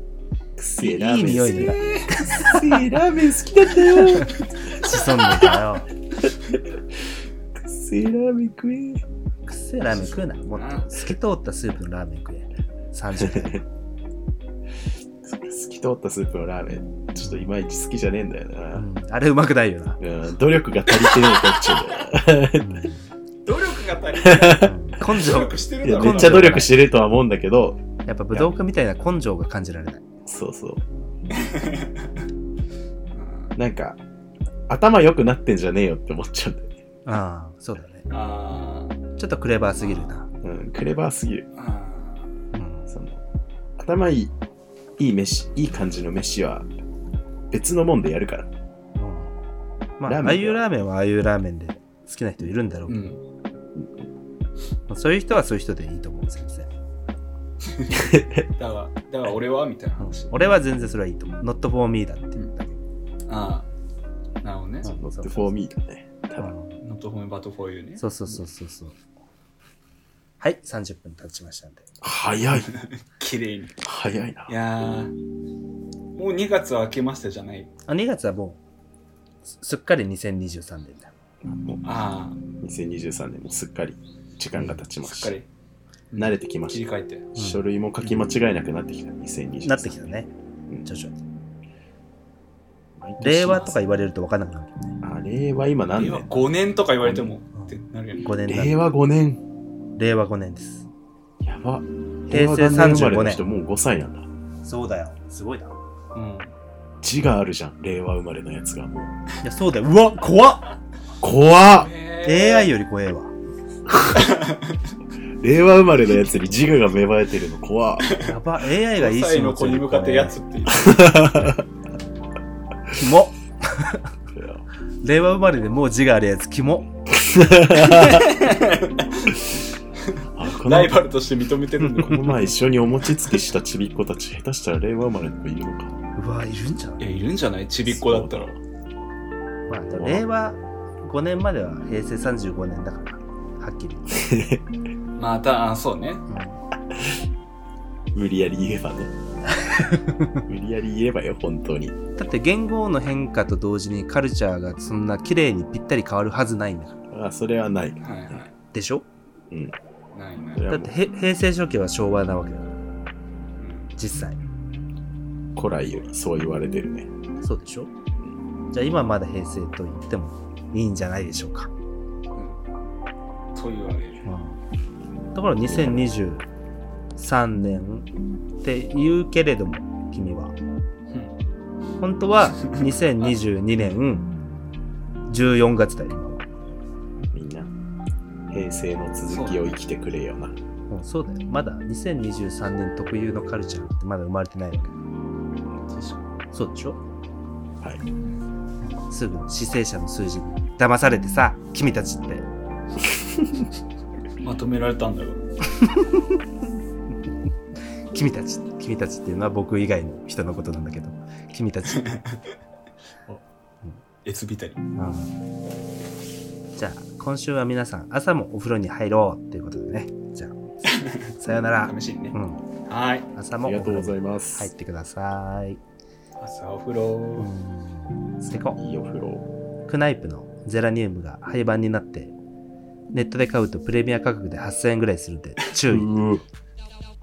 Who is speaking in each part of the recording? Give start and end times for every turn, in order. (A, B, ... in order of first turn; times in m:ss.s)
0:00.6-0:04.4 A
0:00.8-0:02.8 B
0:01.6-0:02.2 C
0:04.0-0:05.9 B
0:05.3-0:05.5 A
0:06.2-0:06.7 A
0:07.6-0:09.0 A
0:09.4-0:13.6 B
0:09.8-0:10.9 C
0:13.2-0:13.6 A
0:15.2-0:18.8 A
0:18.7-0:20.0 B
0:20.0-0:22.8 A
0:22.6-0:23.0 B
0:23.4-0:26.6 C
0:24.2-0:24.8 A
0:24.6-0:26.8 B
0:25.8-0:28.5 A
0:28.0-0:30.0 B
0:30.2-0:30.8 A
0:31.3-0:31.9 C
0:33.1-0:33.6 C
0:33.6-0:34.0 A
0:34.7-0:36.7 A
0:37.0-0:38.1 B
0:38.1-0:39.0 C
0:39.2-0:40.3 B
0:39.8-0:40.1 C
0:40.4-0:41.5 A
0:41.6-0:42.3 C
0:42.5-0:42.9 B
0:42.9-0:43.2 A
0:43.8-0:44.3 A
0:45.0-0:46.7 A
0:47.5-0:48.5 A
0:49.0-0:49.3 B
0:50.0-0:53.1 B
0:50.0-0:50.8 A
0:52.9-0:53.2 C
0:54.9-0:56.7 B
0:57.7-0:58.0 C
0:57.9-0:58.4 A
0:58.6-1:00.4 C
1:00.0-1:02.8 B
1:03.3-1:03.7 C
1:04.4-1:04.9 C
1:04.8-1:05.5 B
1:05.0-1:06.5 A
1:06.4-1:06.8 B
1:06.8-1:08.0 C
1:08.0-1:09.0 B
1:10.4-1:11.8 B
1:12.0-1:12.7 A
1:12.6-1:13.8 C
1:13.8-1:14.5 A
1:14.5-1:15.1 C
1:16.1-1:17.7 C
1:17.9-1:18.6 B
1:19.4-1:21.1 B
1:21.4-1:21.8 A
1:21.8-1:22.4 C
1:22.6-1:25.3 A
1:25.0-1:25.5 C
1:26.1-1:27.3 C
1:26.2-1:26.8 A
1:27.3-1:30.0 A
1:27.4-1:28.1 B
1:29.6-1:30.3 B
1:30.8-1:31.2 B
1:33.0-1:33.7 A
1:33.2-1:35.0 B
1:33.5-1:33.8 C
1:35.0-1:36.4 A
1:36.0-1:38.3 C
1:37.0-1:37.3 A
1:37.6-1:38.9 B
1:38.4-1:39.4 A
1:40.0-1:40.9 B
1:41.4-1:44.3 A
1:42.3-1:43.4 B
1:44.6-1:45.7 B
1:46.1-1:46.5 C
1:47.0-1:49.1 A
1:49.4-1:50.7 B
1:51.2-1:51.9 A
1:51.7-1:52.7 C
1:52.2-1:53.3 B
1:53.9-1:54.8 C
1:55.4-1:58.1 A
1:58.0-2:01.4 C
1:58.2-2:00.4 B
2:00.8-2:01.6 A
2:03.0-2:04.1 B
2:04.3-2:04.6 A
2:05.0-2:06.9 B
2:07.1-2:08.3 A
2:07.9-2:09.4 C
2:10.1-2:12.5 C
2:10.3-2:11.0 A
2:12.0-2:16.0 A
2:16.2-2:17.2 B
2:17.0-2:18.5 C
2:17.8-2:18.6 A
2:19.7-2:24.2 B
2:19.9-2:20.2 A
2:24.1-2:24.6 A
2:25.2-2:26.2 C
2:26.3-2:26.6 B
2:28.1-2:29.1 A
2:29.6-2:30.4 B
2:30.4-2:32.0 A
2:32.2-2:37.0 B
2:37.1-2:38.4 A
2:38.0-2:38.5 C
2:38.7-2:39.0 B
2:39.5-2:39.8 A
2:40.1-2:40.6 C
2:40.5-2:40.9 A
2:40.7-2:42.8 B
2:43.6-2:43.9 C
2:44.0-2:44.4 B
2:45.6-2:47.1 A
2:47.4-2:47.9 B
2:48.7-2:51.7 B
2:52.3-2:52.6 C
2:53.5-2:54.3 C
2:54.2-2:54.6 B
2:55.3-2:56.4 B
2:55.6-2:56.1 A
2:57.2-2:58.1 B
2:58.6-3:00.6 B
3:01.1-3:01.3 C
3:02.0-3:04.3 B
3:05.3-3:06.4 B
3:07.3-3:07.7 A
3:08.5-3:10.6 A
3:09.3-3:09.7 C
3:10.9-3:15.0 B
3:15.9-3:16.2 C
3:16.5-3:17.0 B
3:19.0-3:22.4 B
3:24.4-3:25.4 C
3:25.8-3:26.3 B
3:28.1-3:32.2 B
3:34.2-3:34.8 C
3:35.0-3:35.4 B
3:36.8-3:40.6 B
3:40.9-3:41.2 C
3:41.4-3:42.6 B
3:41.8-3:42.3 C
3:42.9-3:43.3 C
3:43.3-3:45.8 B
3:43.6-3:44.7 A
3:46.4-3:47.5 C
3:47.4-3:48.8 B
3:48.6-3:49.4 A
3:49.9-3:52.3 B
3:53.1-3:56.1 B
3:55.9-3:56.4 A